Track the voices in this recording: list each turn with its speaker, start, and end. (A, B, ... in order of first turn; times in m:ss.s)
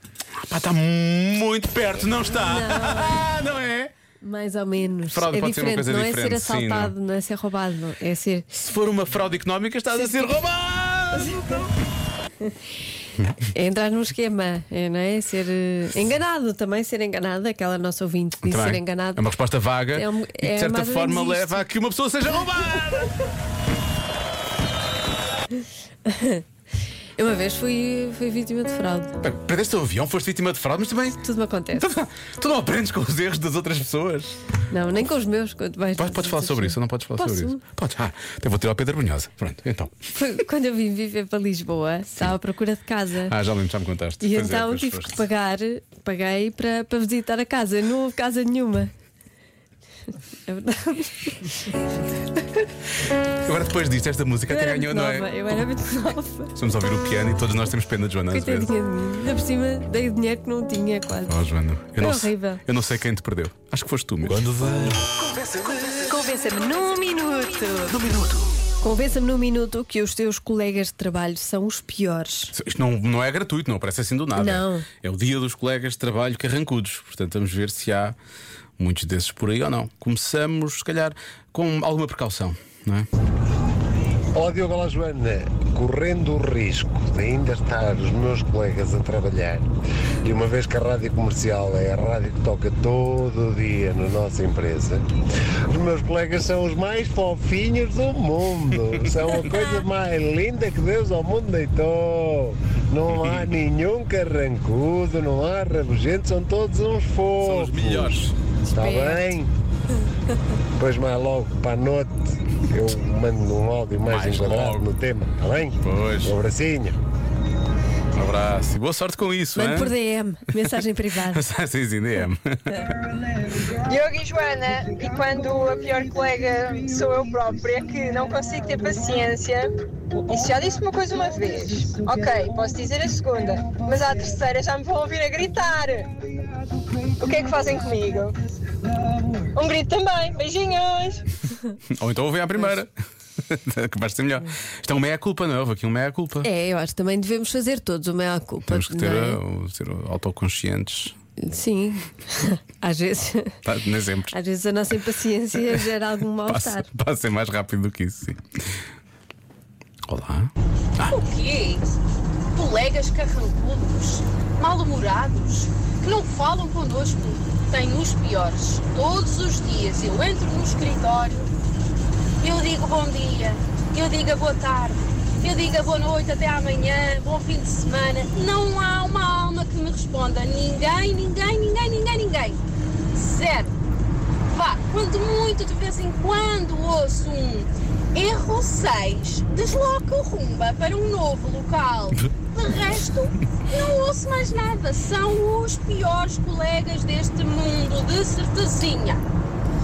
0:00.5-0:03.9 A
0:02.4-0:03.2 B
0:04.2-0:08.4 B
0:05.1-0:06.9 A
0:08.5-0:11.7 A
0:10.0-0:10.3 B
0:11.2-0:11.5 B
0:13.5-0:19.3 B
0:18.4-0:23.2 A
0:19.9-0:21.6 B
0:26.1-0:26.4 B
0:27.2-0:29.1 B
0:29.2-0:31.2 A
0:31.2-0:31.9 B
0:31.8-0:34.4 A
0:34.7-0:37.6 B
0:36.0-0:40.0 A
0:40.1-0:43.3 B
0:43.3-0:45.2 A
0:44.2-0:48.9 B
0:50.5-0:51.7 B
0:53.4-0:55.3 A
0:54.5-0:56.5 B
0:56.6-0:58.7 A
0:58.3-1:01.4 B
1:01.3-1:04.9 A
1:02.0-1:02.6 B
1:05.9-1:08.0 B
1:08.0-1:08.3 A
1:08.8-1:12.5 B
1:12.5-1:18.2 A
1:14.4-1:14.9 B
1:18.8-1:23.1 A
1:24.4-1:29.7 C
1:30.2-1:35.0 C
1:35.7-1:48.2 C
1:43.1-1:43.6 A
1:47.4-1:48.4 A
1:48.7-1:49.3 B
1:48.7-1:49.5 C
1:50.8-1:57.0 C
1:54.1-1:54.9 A
1:55.8-1:56.4 A
1:58.1-1:59.9 A
1:59.6-2:01.4 B
2:01.3-2:02.9 A
2:03.8-2:09.7 D
2:10.2-2:16.1 D
2:17.2-2:18.4 D
2:19.5-2:21.2 D
2:21.9-2:22.9 A
2:23.5-2:26.5 A
2:26.4-2:29.4 B
2:28.7-2:31.2 A
2:31.4-2:33.6 B
2:33.6-2:34.3 A
2:34.3-2:36.9 B
2:36.5-2:38.4 A
2:40.1-2:41.2 A
2:41.0-2:41.9 E
2:42.5-2:51.5 E
2:52.4-3:02.6 E
3:03.1-3:03.7 E
3:04.5-3:19.2 E